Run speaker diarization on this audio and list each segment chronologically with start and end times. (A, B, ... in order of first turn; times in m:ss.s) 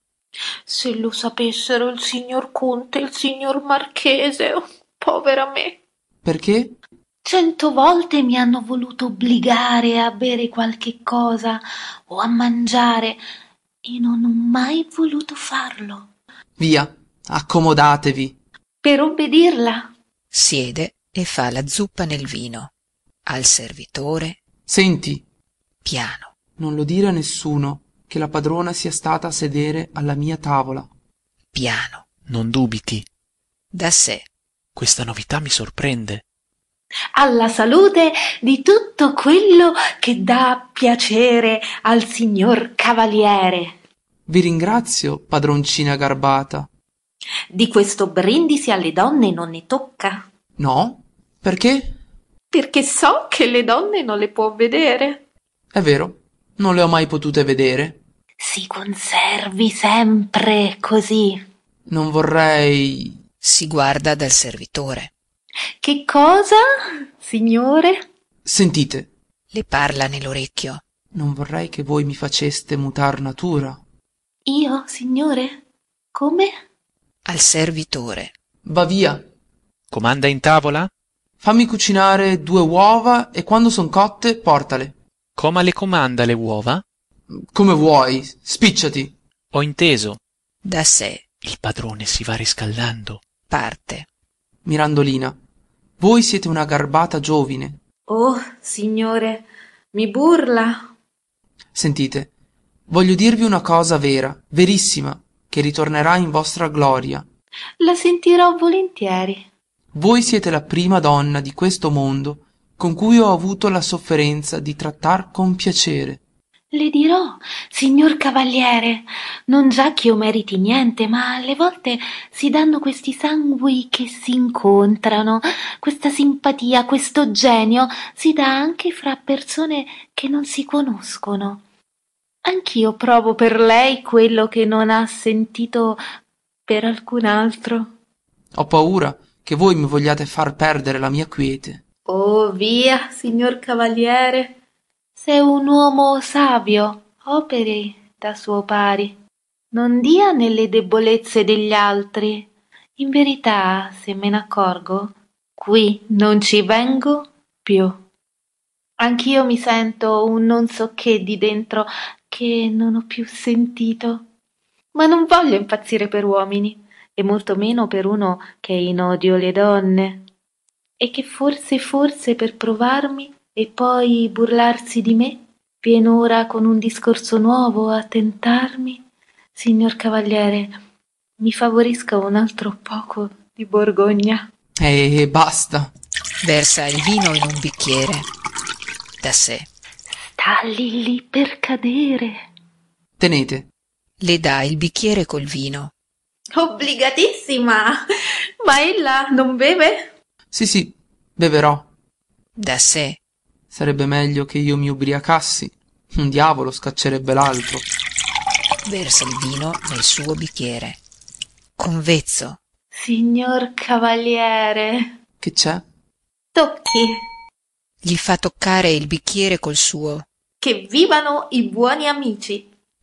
0:00.7-0:05.8 A
0:06.2-0:06.8 B
0:07.2-0:13.2 A
0:13.8-0:16.1 A
0:16.6-0:18.4 B
0:18.8-0:19.9 A
0:20.3-0:22.7 C
0:23.3-0:24.4 C
0:24.7-0:25.2 B
0:25.8-0:26.3 C
0:26.6-0:30.9 B
0:31.5-0:32.0 C
0:32.3-0:33.1 D
0:33.7-0:34.3 C
0:34.8-0:36.2 D
0:37.2-0:43.7 A
0:44.3-0:46.7 B
0:47.5-0:50.3 A
0:50.6-0:52.0 B
0:52.5-0:55.2 A
0:55.7-0:58.0 B
0:58.4-1:01.4 A
1:01.9-1:03.2 B
1:03.4-1:05.1 C
1:05.8-1:06.6 A
1:07.2-1:08.0 A
1:08.4-1:09.1 B
1:09.5-1:10.8 C
1:11.1-1:13.8 B
1:14.5-1:15.6 A
1:16.1-1:16.5 A
1:17.3-1:18.3 C
1:18.6-1:19.2 B
1:19.9-1:20.9 D
1:21.4-1:24.9 B
1:25.4-1:26.8 D
1:27.3-1:29.2 B
1:29.5-1:30.2 D
1:30.6-1:31.2 C
1:31.4-1:33.2 D
1:33.5-1:34.1 C
1:34.6-1:35.4 B
1:36.0-1:37.8 B
1:38.1-1:40.9 A
1:41.7-1:42.3 B
1:42.9-1:47.3 B
1:47.8-1:49.5 A
1:49.9-1:56.2 B
1:56.7-2:11.6 A
2:12.4-2:16.0 A
2:16.7-2:17.9 A
2:18.5-2:21.8 B
2:22.1-2:24.6 A
2:25.2-2:29.2 A
2:29.7-2:38.0 A
2:39.0-2:44.2 A
2:44.9-2:50.3 A
2:51.0-2:59.0 A
2:59.6-3:00.8 A
3:01.4-3:04.5 A
3:04.8-3:05.9 B
3:06.4-3:08.3 C
3:09.2-3:09.7 C
3:10.1-3:12.4 A
3:13.2-3:13.7 B
3:14.2-3:15.9 C
3:16.6-3:18.0 A
3:18.6-3:20.1 A
3:20.5-3:21.9 B
3:22.6-3:23.2 C
3:23.7-3:27.9 B
3:28.8-3:31.0 C
3:31.8-3:32.6 C
3:32.9-3:35.1 A
3:35.4-3:35.8 B
3:36.5-3:37.2 A
3:38.0-3:40.3 C
3:40.6-3:42.7 A